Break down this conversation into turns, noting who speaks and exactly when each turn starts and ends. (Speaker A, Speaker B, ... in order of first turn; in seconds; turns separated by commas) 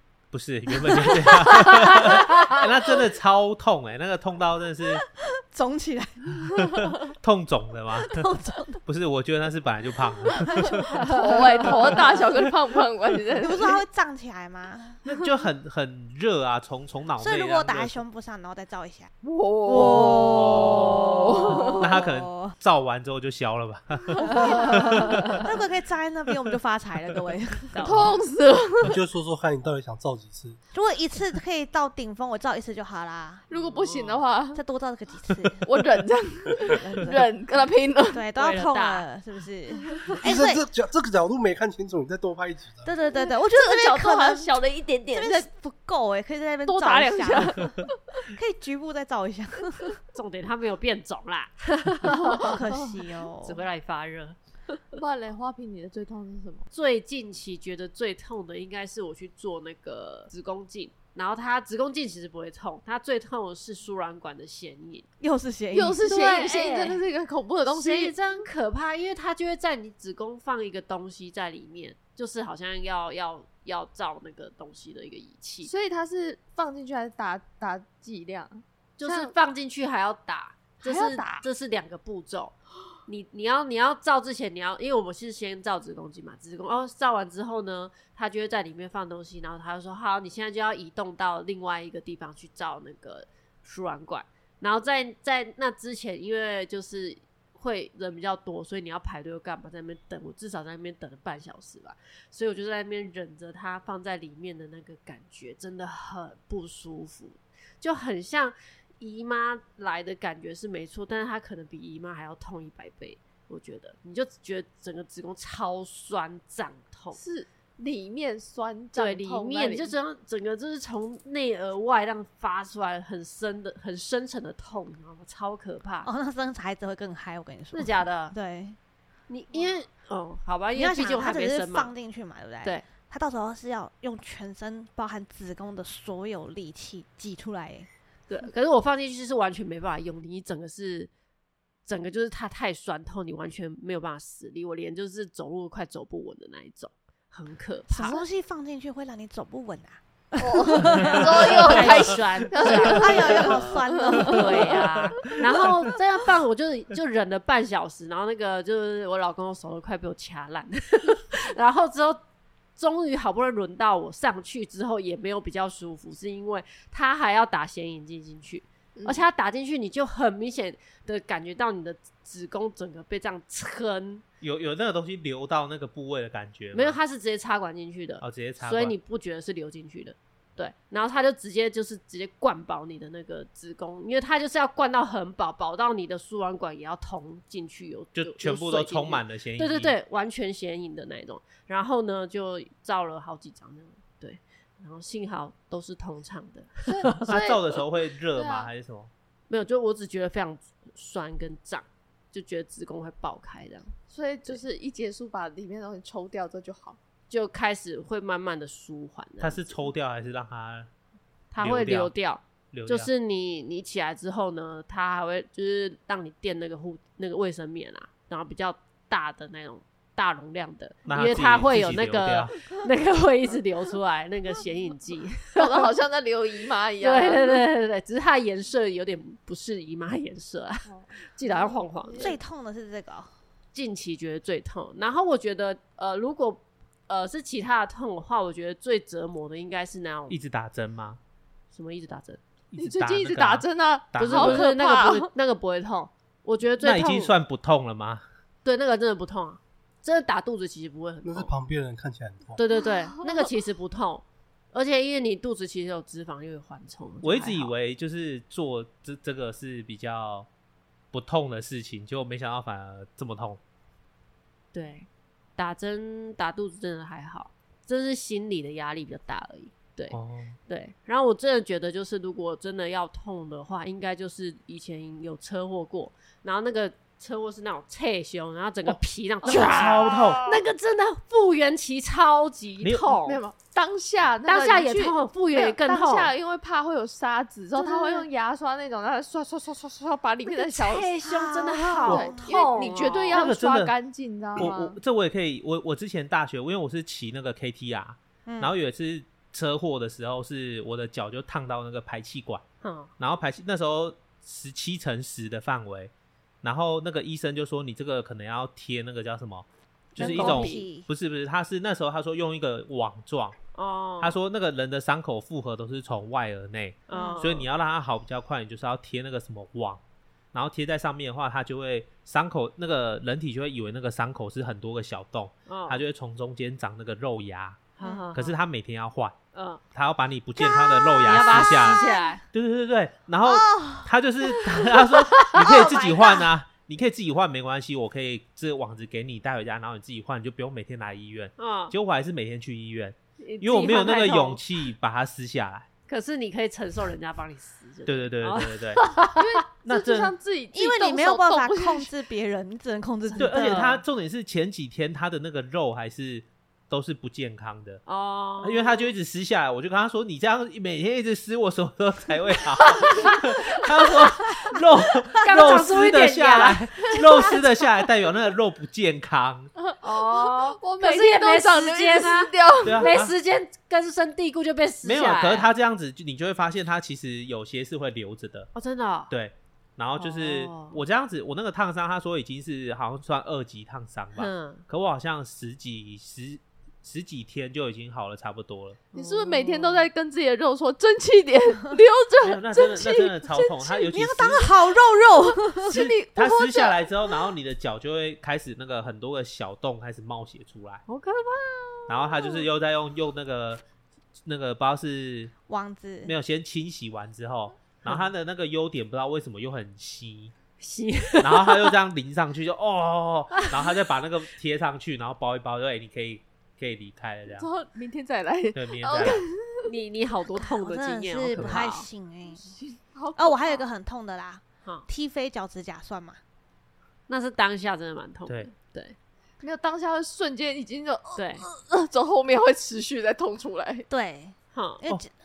Speaker A: 0.3-5.1, Speaker B: 0.9-2.2, Speaker C: 1.3-2.6, Speaker B: 5.2-7.0, Speaker A: 6.9-8.3, Speaker B: 8.0-8.8, Speaker A: 8.8-11.9, Speaker D: 11.0-13.8, Speaker B: 11.9-12.2, Speaker B: 13.4-15.1, Speaker A: 15.1-18.0, Speaker B: 17.2-19.1, Speaker D: 19.2-21.9, Speaker B: 19.7-22.6, Speaker A: 20.4-21.0, Speaker A: 21.8-25.4, Speaker B: 24.2-28.0, Speaker C: 24.3-25.2, Speaker C: 27.7-28.1, Speaker D: 27.8-29.0, Speaker E: 28.8-30.6, Speaker B: 30.7-33.5, Speaker D: 33.5-34.6, Speaker C: 33.5-34.2, Speaker B: 34.5-35.7, Speaker D: 35.6-38.2, Speaker B: 36.6-37.3, Speaker B: 38.1-40.7, Speaker C: 38.4-39.1, Speaker E: 40.2-42.9, Speaker B: 42.9-44.6, Speaker D: 43.1-45.5, Speaker B: 45.1-47.7, Speaker D: 46.7-48.2, Speaker B: 48.2-50.0, Speaker C: 50.1-52.6, Speaker D: 52.1-52.9, Speaker B: 52.2-53.6, Speaker C: 53.4-54.8, Speaker D: 55.0-56.7, Speaker C: 56.7-65.1, Speaker B: 65.2-66.0, Speaker D: 65.7-68.2, Speaker C: 66.0-67.0, Speaker C: 67.7-75.7, Speaker D: 75.6-79.3, Speaker C: 79.0-117.2, Speaker D: 80.8-81.5, Speaker D: 117.1-120.0, Speaker C: 119.0-126.1, Speaker B: 126.0-128.8, Speaker C: 127.7-128.3, Speaker C: 129.3-131.9, Speaker B: 130.8-137.9, Speaker C: 138.3-141.1, Speaker C: 141.9-148.2, Speaker B: 147.9-151.6, Speaker D: 150.4-154.7, Speaker C: 151.0-153.6, Speaker B: 152.7-155.0, Speaker C: 154.2-162.2, Speaker C: 162.8-174.2, Speaker D: 169.0-169.2, Speaker A: 174.4-177.0, Speaker C: 176.7-197.3, Speaker A: 178.2-178.9, Speaker A: 188.2-190.0, Speaker D: 196.9-197.8, Speaker A: 197.2-199.1, Speaker D: 198.4-198.7, Speaker C: 199.5-203.9, Speaker D: 204.1-207.0, Speaker C: 207.3-209.8, Speaker A: 209.4-210.9, Speaker C: 211.5-225.9, Speaker A: 211.6-212.1, Speaker A: 212.7-213.1, Speaker A: 221.1-222.6, Speaker D: 225.6-227.6, Speaker C: 227.0-232.4, Speaker D: 230.9-232.4, Speaker B: 232.2-233.3, Speaker C: 233.7-240.4, Speaker A: 240.3-241.2, Speaker C: 241.7-242.4, Speaker A: 242.7-244.6, Speaker D: 242.8-245.3, Speaker C: 244.2-247.3, Speaker A: 246.8-248.2, Speaker C: 248.7-251.5, Speaker E: 251.2-252.6, Speaker C: 252.6-257.7, Speaker D: 253.2-253.5, Speaker A: 257.2-260.5, Speaker A: 261.1-263.6, Speaker C: 264.7-283.4, Speaker A: 270.1-270.6, Speaker A: 278.9-280.5, Speaker D: 279.5-280.6, Speaker D: 283.1-291.1, Speaker C: 284.4-286.3, Speaker C: 287.8-288.2, Speaker C: 290.6-293.5, Speaker B: 291.2-292.9, Speaker D: 292.1-295.0, Speaker A: 293.3-293.9, Speaker A: 294.6-302.6, Speaker B: 298.5-298.7, Speaker C: 302.8-303.1, Speaker A: 303.2-306.1, Speaker A: 306.6-313.6, Speaker C: 310.2-310.9, Speaker B: 310.2-311.1, Speaker C: 313.8-314.4, Speaker A: 314.2-320.0, Speaker C: 317.1-317.7, Speaker B: 317.1-317.4, Speaker A: 320.5-329.4, Speaker C: 325.7-326.0, Speaker C: 328.0-328.6, Speaker C: 329.5-329.8, Speaker A: 329.9-345.9, Speaker B: 330.6-332.2, Speaker C: 331.2-332.4, Speaker B: 333.5-334.1, Speaker C: 335.4-336.3, Speaker B: 335.7-336.4, Speaker C: 341.6-341.9, Speaker C: 343.4-344.6, Speaker C: 346.1-349.4, Speaker A: 348.1-349.1, Speaker D: 349.4-352.1, Speaker A: 349.8-350.4, Speaker B: 350.7-353.9, Speaker C: 353.4-354.0, Speaker A: 353.4-358.0, Speaker C: 358.1-359.1, Speaker A: 358.6-369.7, Speaker C: 363.0-363.4, Speaker C: 365.4-367.6, Speaker D: 369.9-373.1, Speaker C: 370.0-375.7, Speaker A: 372.8-373.3, Speaker A: 375.0-378.7, Speaker C: 378.8-379.3, Speaker A: 379.3-389.0, Speaker C: 380.2-381.0, Speaker C: 384.4-384.8, Speaker D: 389.1-394.0, Speaker C: 389.1-390.1, Speaker A: 392.4-394.7, Speaker B: 394.1-396.0, Speaker D: 395.7-397.3, Speaker A: 395.9-401.0, Speaker C: 401.1-402.6, Speaker A: 402.1-403.8, Speaker A: 404.5-405.5, Speaker B: 405.7-406.3, Speaker A: 406.2-410.5, Speaker C: 408.1-408.3, Speaker C: 410.8-411.9, Speaker A: 411.4-417.7, Speaker D: 417.5-419.9, Speaker A: 418.7-419.4, Speaker C: 419.9-422.1, Speaker B: 420.5-422.7, Speaker A: 421.6-421.8, Speaker D: 422.5-423.8, Speaker B: 423.4-426.4, Speaker C: 427.3-429.2, Speaker D: 429.6-434.1, Speaker C: 431.4-431.7, Speaker B: 434.1-435.3, Speaker C: 434.7-435.0